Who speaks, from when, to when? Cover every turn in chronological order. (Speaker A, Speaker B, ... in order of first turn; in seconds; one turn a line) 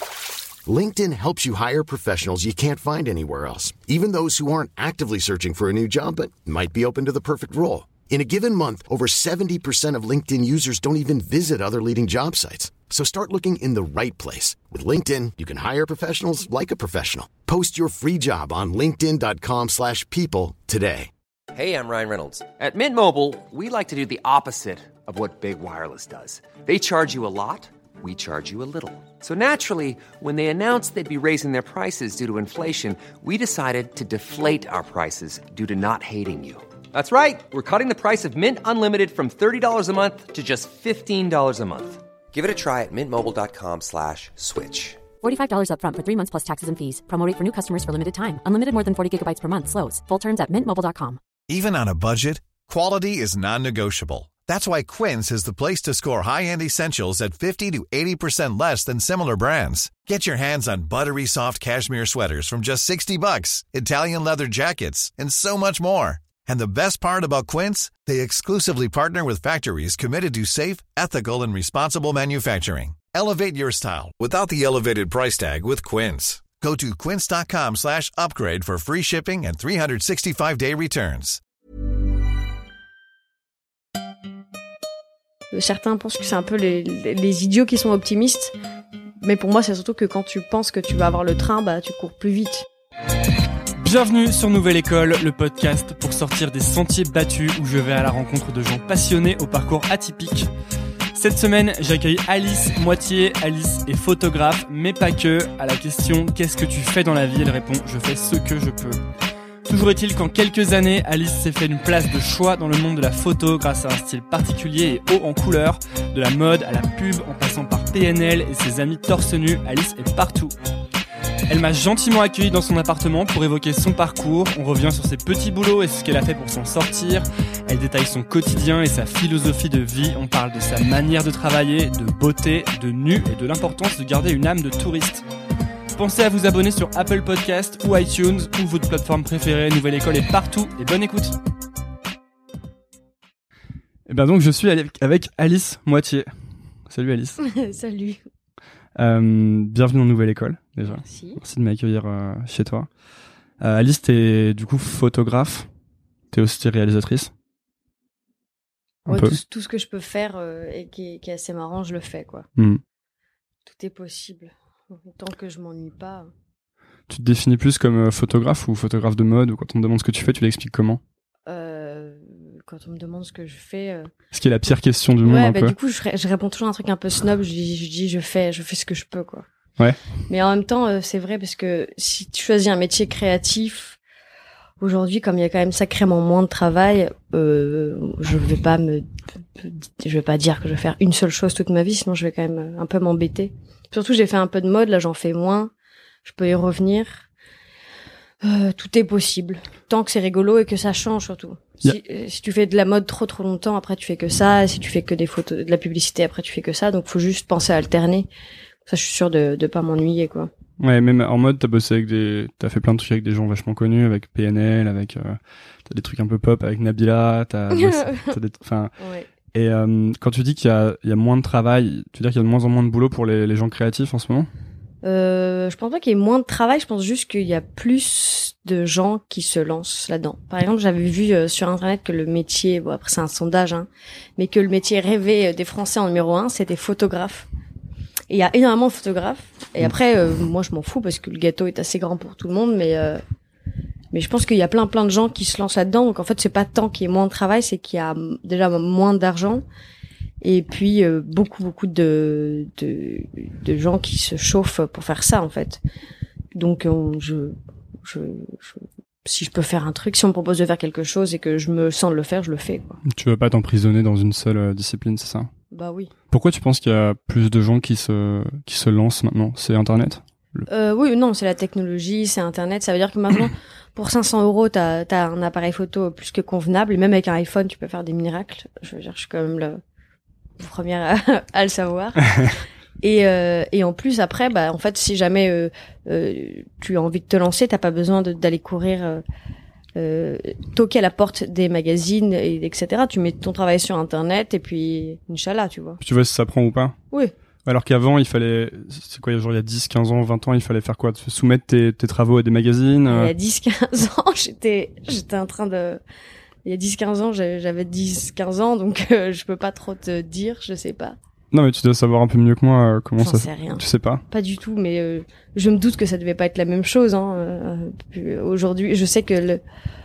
Speaker A: 0.7-21.1
Speaker B: 21.5-45.0
Speaker C: 45.2-51.2
Speaker D: 51.5-81.4
Speaker E: 85.5-88.5
Speaker E: 89.2-92.7
Speaker F: 93.8-100.5
Speaker F: 101.1-109.0
Speaker F: 109.7-120.5
Speaker F: 121.5-135.3
Speaker F: 135.9-141.4
Speaker F: 144.1-146.3
Speaker F: 146.9-147.4
Speaker E: 147.4-148.2
Speaker F: 148.9-152.9
Speaker E: 150.9-151.4
Speaker F: 153.6-155.7
Speaker F: 156.3-157.3
Speaker E: 159.1-162.4
Speaker F: 159.1-159.4
Speaker F: 162.6-162.8
Speaker E: 163.7-166.3
Speaker F: 167.1-171.0
Speaker E: 171.5-174.1
Speaker F: 174.3-175.8
Speaker E: 175.2-179.4
Speaker E: 180.3-184.0
Speaker E: 184.8-195.7
Speaker E: 196.2-197.2
Speaker E: 198.4-208.3
Speaker E: 208.8-210.5
Speaker F: 210.8-218.9
Speaker E: 217.7-218.3
Speaker E: 219.0-219.3
Speaker F: 219.5-224.5
Speaker E: 225.0-237.5
Speaker E: 238.3-243.2
Speaker E: 244.1-249.6
Speaker E: 250.4-255.8
Speaker E: 256.5-263.0
Speaker F: 263.0-265.5
Speaker E: 265.7-266.1
Speaker F: 266.3-270.7
Speaker E: 270.7-279.8
Speaker E: 280.6-289.2
Speaker E: 289.9-296.0
Speaker F: 296.0-296.9
Speaker F: 297.6-303.3
Speaker E: 303.1-306.0
Speaker E: 306.6-311.2
Speaker F: 311.5-314.2
Speaker E: 313.2-319.6